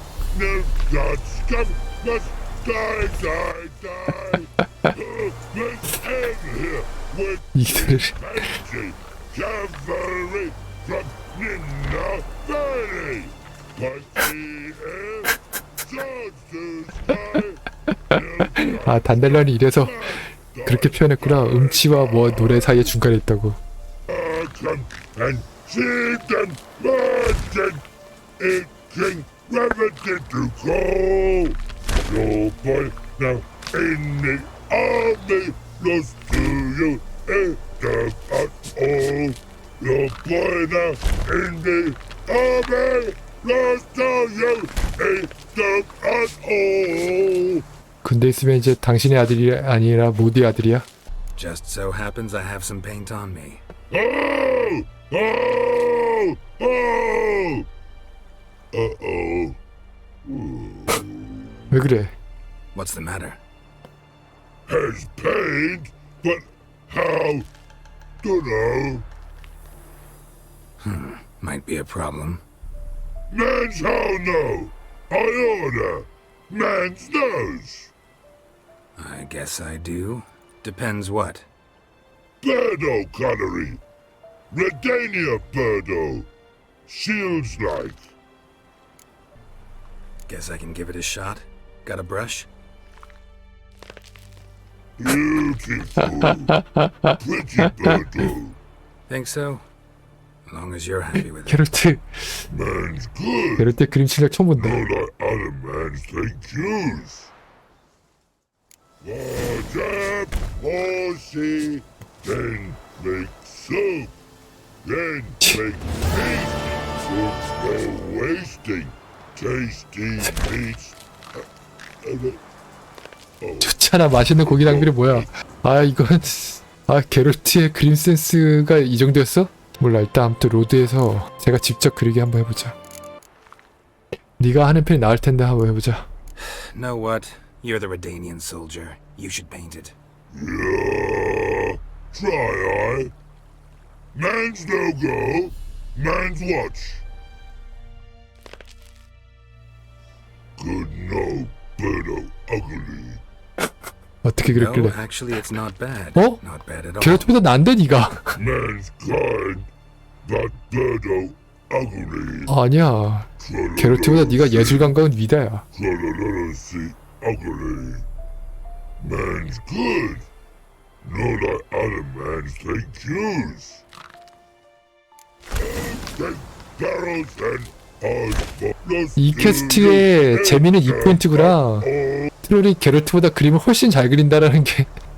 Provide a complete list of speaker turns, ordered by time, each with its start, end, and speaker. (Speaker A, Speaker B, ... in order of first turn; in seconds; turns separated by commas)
Speaker A: 0.3-22.9, Speaker B: 7.5-8.2, Speaker B: 18.8-20.0, Speaker B: 20.6-23.6, Speaker A: 24.1-27.8, Speaker A: 28.4-47.6, Speaker B: 48.0-50.9, Speaker C: 51.4-53.6, Speaker A: 53.9-57.6, Speaker A: 58.7-59.6, Speaker A: 60.2-61.4, Speaker B: 61.7-62.1, Speaker C: 62.7-63.4, Speaker A: 64.7-67.5, Speaker A: 68.2-69.1, Speaker C: 70.8-72.4, Speaker A: 73.3-77.9, Speaker C: 79.0-81.5, Speaker A: 82.4-83.8, Speaker A: 84.5-86.3, Speaker A: 86.9-88.1, Speaker C: 90.3-92.5, Speaker A: 95.0-96.5, Speaker B: 96.5-97.2, Speaker A: 97.2-98.6, Speaker C: 99.1-99.7, Speaker C: 100.5-101.7, Speaker B: 101.4-102.1, Speaker A: 102.5-103.7, Speaker B: 103.6-104.8, Speaker A: 104.6-107.3, Speaker A: 109.0-114.1, Speaker A: 114.8-121.0, Speaker A: 122.0-122.4, Speaker A: 123.4-125.3, Speaker B: 123.6-132.8, Speaker B: 134.4-136.1, Speaker C: 136.4-139.9, Speaker A: 140.3-143.1, Speaker A: 144.1-147.0, Speaker A: 150.6-153.2, Speaker B: 154.2-155.0, Speaker C: 154.4-157.3, Speaker B: 156.1-156.4, Speaker B: 157.0-158.4, Speaker A: 158.3-159.7, Speaker A: 160.2-162.5, Speaker B: 162.5-165.6, Speaker A: 163.4-164.9, Speaker A: 165.7-168.1, Speaker A: 169.0-170.3, Speaker A: 171.0-173.8, Speaker A: 175.6-182.3, Speaker B: 179.2-181.9, Speaker B: 182.4-184.9